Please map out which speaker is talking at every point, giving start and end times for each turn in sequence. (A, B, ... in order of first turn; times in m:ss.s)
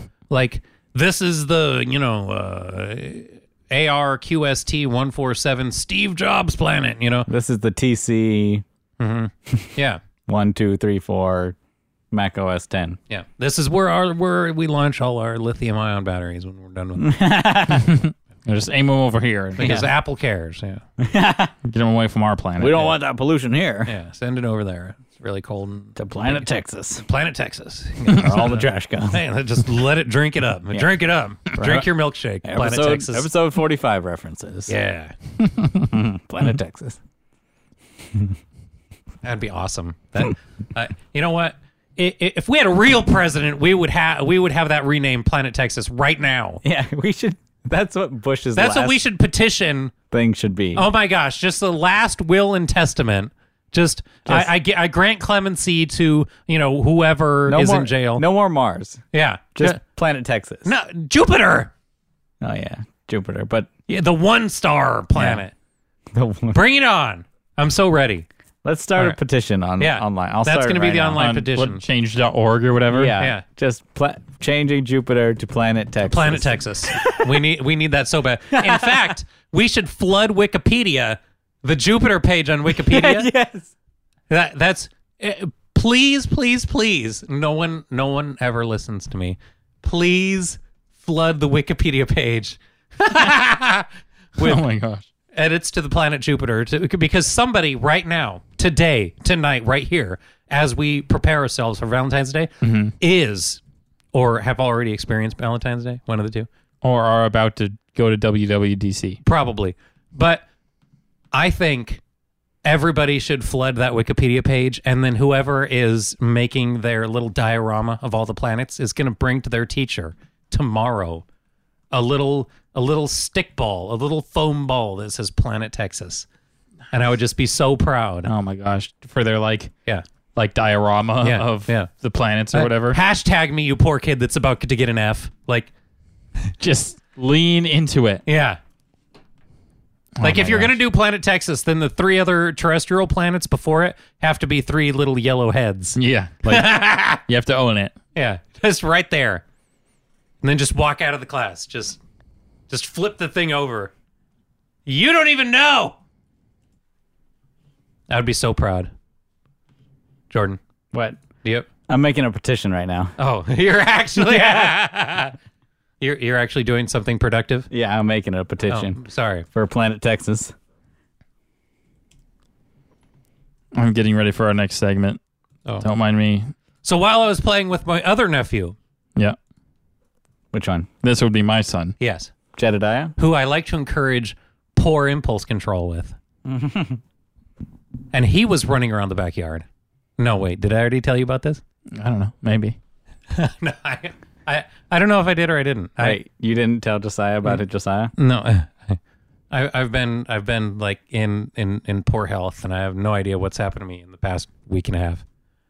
0:00.3-0:07.3 A
0:07.3-0:08.6 B
0:09.0-0:10.0 A
0:10.3-0:11.6 B
0:12.1-0:13.0 B
0:13.1-0:17.2 A
0:17.0-0:18.0 B
0:17.7-0:19.9 C
0:19.6-0:20.8 A
0:21.0-0:21.5 B
0:21.6-0:22.9 C
0:22.6-0:23.9 B
0:23.9-0:26.5 A
0:26.0-0:27.0 B
0:27.0-0:33.3 A
0:28.1-0:29.2 B
0:31.5-0:31.9 B
0:32.4-0:34.7 B
0:34.7-0:35.2 A
0:35.6-0:37.0 B
0:39.2-0:46.6 A
0:46.6-0:49.0 B
0:48.6-0:49.9 A
0:50.1-0:50.9 B
0:50.8-0:58.2 A
0:57.5-0:59.0 B
0:59.1-0:59.8 A
0:59.6-1:00.7 B
1:00.6-1:01.7 A
1:02.4-1:03.7 B
1:03.9-1:05.5 A
1:05.2-1:05.4 B
1:06.1-1:06.6 B
1:06.5-1:08.3 A
1:08.6-1:11.2 B
1:09.8-1:11.8 A
1:11.2-1:13.2 C
1:12.9-1:17.4 B
1:13.2-1:13.4 A
1:16.0-1:23.3 A
1:18.5-1:19.1 B
1:22.7-1:23.7 B
1:24.3-1:34.6 A
1:34.4-1:35.0 C
1:35.3-1:43.6 A
1:42.6-1:43.0 C
1:44.1-1:46.5 A
1:46.8-1:49.2 C
1:49.2-1:50.4 A
1:51.3-1:52.0 A
1:52.6-2:01.2 A
2:01.9-2:06.3 A
2:06.9-2:08.3 A
2:08.3-2:09.7 C
2:10.4-2:13.0 C
2:11.2-2:11.9 A
2:12.5-2:15.7 A
2:16.6-2:18.2 C
2:18.3-2:18.6 A
2:20.2-2:20.8 C
2:20.2-2:27.2 A
2:26.0-2:28.0 C
2:28.2-2:29.4 A
2:30.4-2:32.0 A
2:32.7-2:33.9 A
2:34.9-2:36.0 A
2:38.1-2:38.9 A
2:40.3-2:40.6 A
2:40.9-2:41.2 B
2:41.9-2:43.1 B
2:43.2-2:45.4 A
2:44.2-2:44.7 B
2:46.0-2:47.7 A
2:47.7-2:49.0 B
2:48.7-2:49.5 A
2:49.5-2:50.5 B
2:53.7-2:55.2 C
2:55.8-2:56.5 C
2:56.8-2:58.8 A
3:00.5-3:00.9 B
3:01.0-3:02.0 C
3:02.0-3:02.3 A
3:02.6-3:03.1 B
3:03.2-3:06.2 A
3:06.5-3:07.0 B
3:08.1-3:09.6 A
3:10.2-3:11.6 A
3:12.0-3:12.8 C
3:13.3-3:16.2 A
3:16.0-3:18.1 B
3:18.2-3:19.0 A
3:19.5-3:25.2 A